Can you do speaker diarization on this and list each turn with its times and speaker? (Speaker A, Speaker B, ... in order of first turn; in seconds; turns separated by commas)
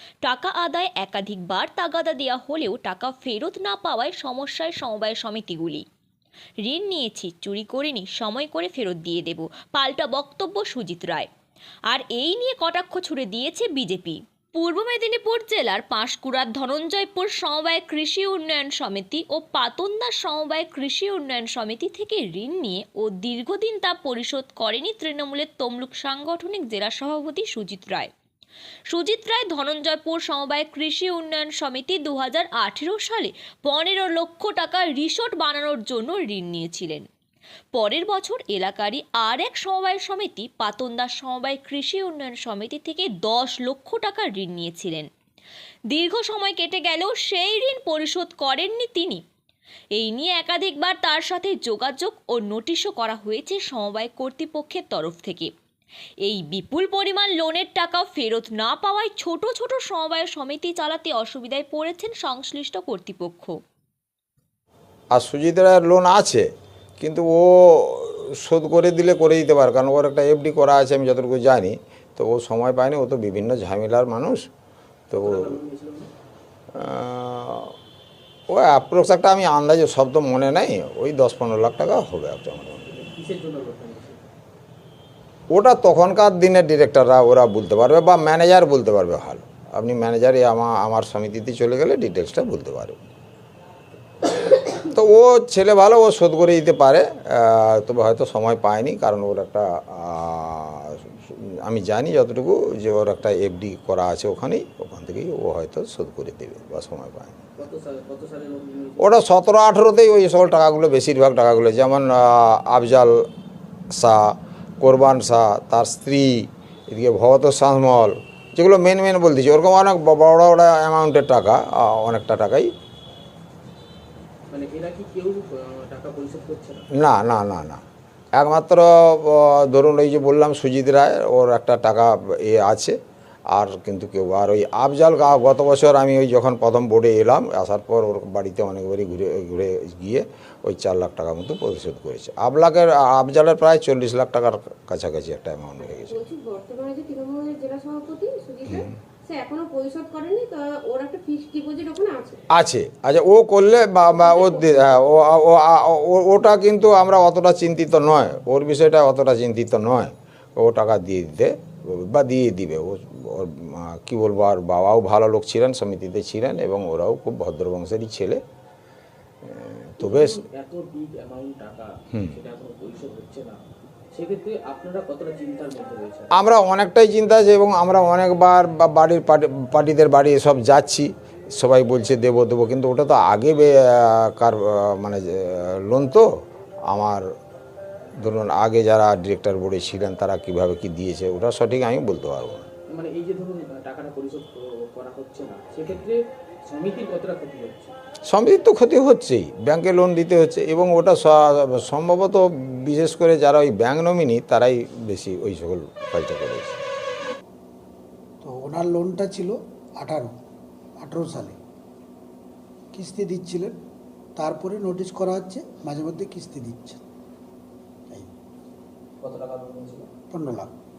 Speaker A: 0.2-5.8, Speaker A: 6.6-11.3, Speaker A: 11.9-28.1, Speaker A: 28.9-37.0, Speaker A: 37.7-45.1, Speaker A: 45.9-49.2, Speaker A: 50.0-55.5, Speaker A: 56.2-63.6, Speaker B: 65.1-66.4, Speaker B: 67.0-74.5, Speaker B: 75.1-75.6, Speaker C: 75.2-76.1, Speaker B: 76.8-77.7, Speaker B: 78.5-82.9, Speaker C: 82.9-84.2, Speaker B: 85.5-93.0, Speaker B: 94.5-107.3, Speaker C: 107.6-109.2, Speaker B: 109.0-113.1, Speaker B: 113.9-122.7, Speaker C: 124.5-126.8, Speaker B: 127.0-127.8, Speaker B: 128.3-132.9, Speaker B: 133.5-146.2, Speaker D: 145.8-152.4, Speaker B: 152.6-168.4, Speaker D: 154.1-155.1, Speaker B: 169.4-170.4, Speaker C: 170.0-173.6, Speaker C: 174.1-176.4, Speaker B: 176.3-186.2, Speaker B: 186.9-187.2, Speaker B: 188.2-192.7, Speaker C: 192.9-197.9, Speaker B: 198.3-206.8, Speaker E: 208.4-210.3, Speaker E: 211.0-211.6, Speaker E: 212.9-213.7, Speaker E: 214.3-217.0, Speaker C: 219.2-220.1, Speaker E: 220.3-220.7